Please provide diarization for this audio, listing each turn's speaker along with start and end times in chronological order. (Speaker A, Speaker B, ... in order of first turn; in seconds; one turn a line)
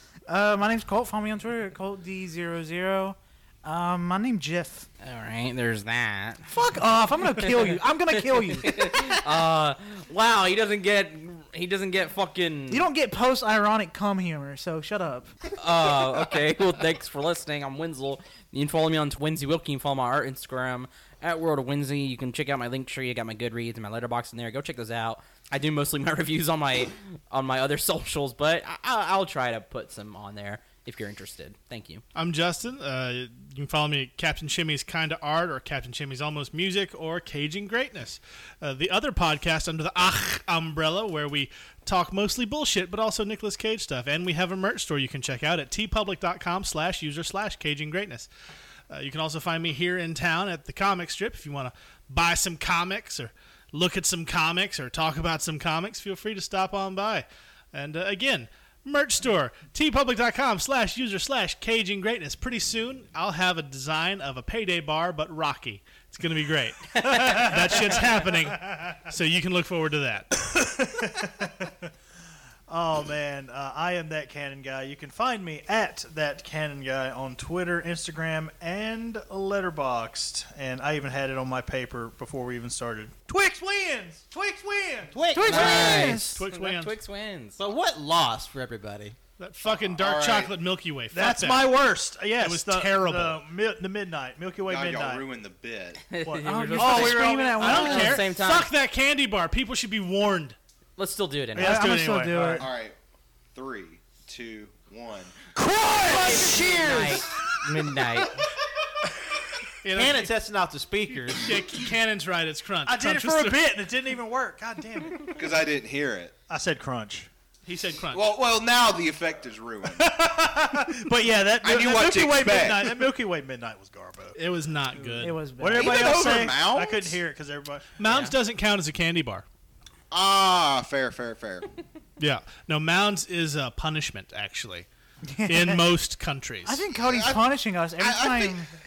Speaker A: 0.3-4.9
Speaker B: 5.0-6.5
Speaker A: 6.5-9.2
Speaker B: 7.3-12.9
Speaker A: 12.7-15.3
Speaker B: 15.6-32.0
Speaker C: 32.1-48.3
Speaker C: 48.9-70.3
Speaker D: 67.0-68.6
Speaker D: 70.4-71.9
Speaker D: 72.7-85.2
Speaker E: 85.1-86.1
Speaker A: 85.3-86.4
Speaker B: 85.4-87.6
Speaker C: 85.6-86.9
Speaker E: 87.6-89.2
Speaker C: 89.4-91.7
Speaker F: 89.6-90.5
Speaker D: 91.1-95.2
Speaker C: 92.4-93.4
Speaker F: 94.7-96.2
Speaker B: 96.1-98.7
Speaker D: 96.2-97.6
Speaker A: 96.4-98.3
Speaker C: 97.0-100.6
Speaker B: 101.0-101.8
Speaker C: 101.6-102.7
Speaker A: 101.6-102.7
Speaker F: 102.6-103.0
Speaker F: 103.5-105.3
Speaker D: 105.5-107.3
Speaker A: 106.1-107.2
Speaker B: 106.1-108.4
Speaker C: 109.8-110.3
Speaker E: 110.0-111.6
Speaker C: 111.4-113.6
Speaker D: 112.8-115.4
Speaker F: 115.2-116.3
Speaker D: 116.5-117.3
Speaker C: 117.7-118.3
Speaker F: 118.1-120.1
Speaker D: 119.9-128.0
Speaker F: 121.6-123.1
Speaker C: 124.3-125.4
Speaker A: 125.2-126.3
Speaker F: 125.7-127.2
Speaker C: 128.0-129.5
Speaker B: 128.1-128.3
Speaker F: 130.1-131.7
Speaker C: 132.2-134.9
Speaker A: 135.3-135.9
Speaker C: 135.5-136.8
Speaker A: 136.7-138.7
Speaker F: 137.0-137.4
Speaker F: 138.0-138.6